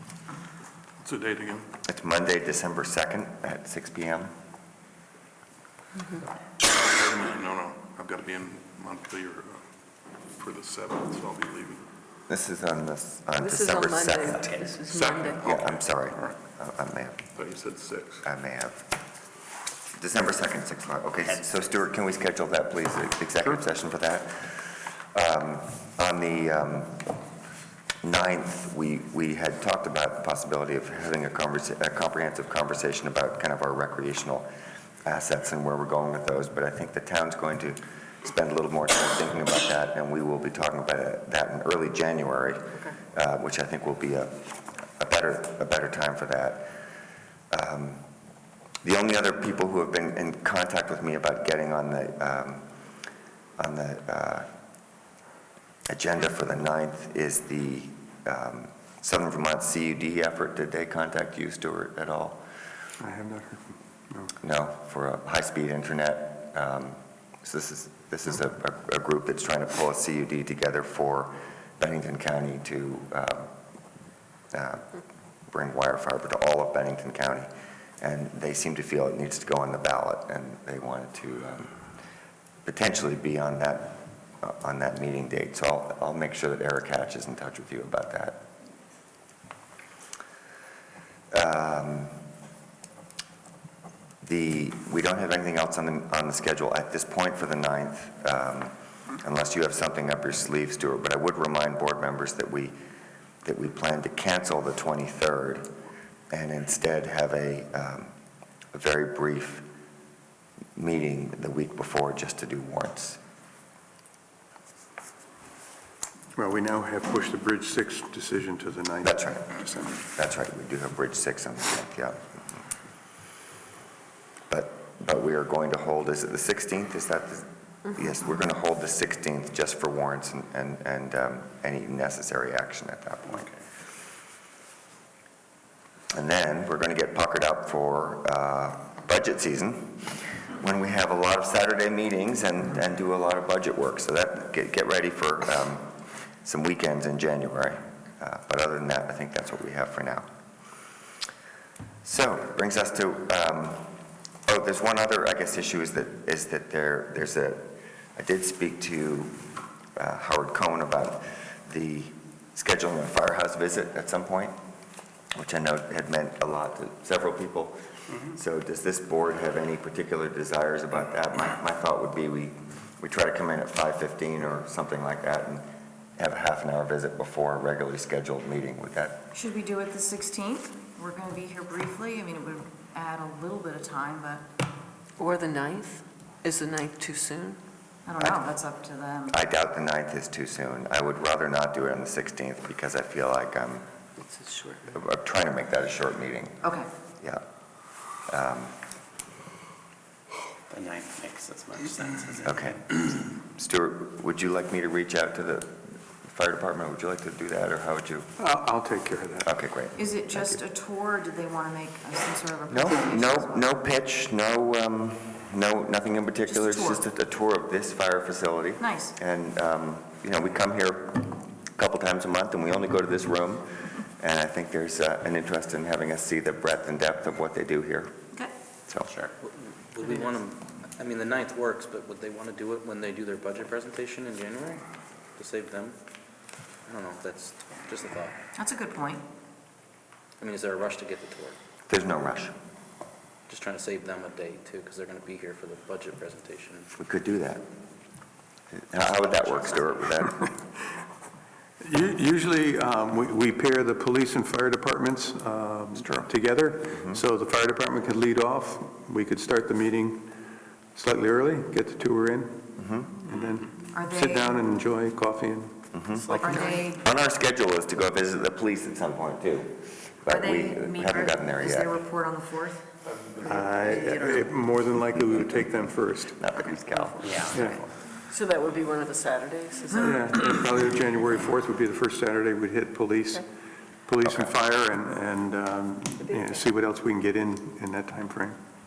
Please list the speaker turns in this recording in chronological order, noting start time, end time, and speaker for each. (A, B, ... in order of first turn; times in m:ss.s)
0:01.0-0:01.7 A
0:01.9-0:04.3 B
0:06.6-0:09.6 A
0:10.4-0:11.8 A
0:12.3-0:14.6 B
0:13.4-0:15.4 C
0:14.9-0:16.4 A
0:15.4-0:17.3 B
0:17.4-0:18.2 A
0:18.2-0:18.9 B
0:20.0-0:27.1 B
0:28.0-0:34.5 B
0:35.0-0:46.7 B
0:47.5-0:48.0 B
0:48.8-0:52.7 B
0:53.6-0:54.5 B
0:55.9-1:02.4 B
1:03.0-1:04.3 D
1:04.4-1:13.5 B
1:14.5-1:14.9 B
1:15.5-1:17.5 B
1:18.0-1:21.7 B
1:22.6-1:28.5 B
1:31.3-1:32.2 B
1:34.2-1:42.7 B
1:43.4-1:45.7 B
1:46.3-1:48.1 B
1:48.7-1:49.6 B
1:50.8-1:53.2 B
1:56.4-2:00.0 D
1:59.0-2:02.4 B
2:04.5-2:13.5 B
2:16.1-2:30.3 B
2:32.0-2:33.9 B
2:34.5-2:39.4 B
2:40.0-2:44.6 B
2:45.4-2:55.7 B
2:56.2-2:59.3 B
2:59.3-3:04.5 E
3:05.2-3:07.6 C
3:08.1-3:09.4 E
3:09.3-3:13.9 B
3:14.3-3:14.8 C
3:14.9-3:16.6 B
3:16.6-3:16.9 E
3:18.3-3:18.8 B
3:20.7-3:22.8 F
3:22.4-3:28.3 B
3:28.4-3:29.5 D
3:29.4-3:30.6 B
3:30.0-3:33.6 E
3:32.7-3:48.2 B
3:36.5-3:37.0 E
3:38.8-3:39.1 E
3:49.1-3:49.3 F
3:49.4-3:54.8 G
3:55.4-3:56.0 G
3:56.9-3:58.4 G
3:58.6-3:59.2 E
4:00.4-4:01.6 G
4:01.9-4:02.6 B
4:03.5-4:06.9 G
4:07.0-4:07.6 B
4:08.7-4:10.5 B
4:11.8-4:20.3 D
4:16.0-4:16.3 B
4:21.0-4:22.6 D
4:22.8-4:23.2 B
4:23.2-4:25.8 D
4:23.9-4:24.6 E
4:25.9-4:32.0 B
4:26.3-4:26.8 C
4:26.3-4:27.0 E
4:30.3-4:32.8 E
4:33.2-4:33.6 A
4:33.4-4:34.5 E
4:33.4-4:36.6 D
4:35.1-4:37.6 B
4:37.2-4:37.8 F
4:37.4-4:37.8 D
4:38.3-4:40.4 C
4:40.0-4:43.4 D
4:44.0-4:48.6 D
4:44.2-4:44.5 B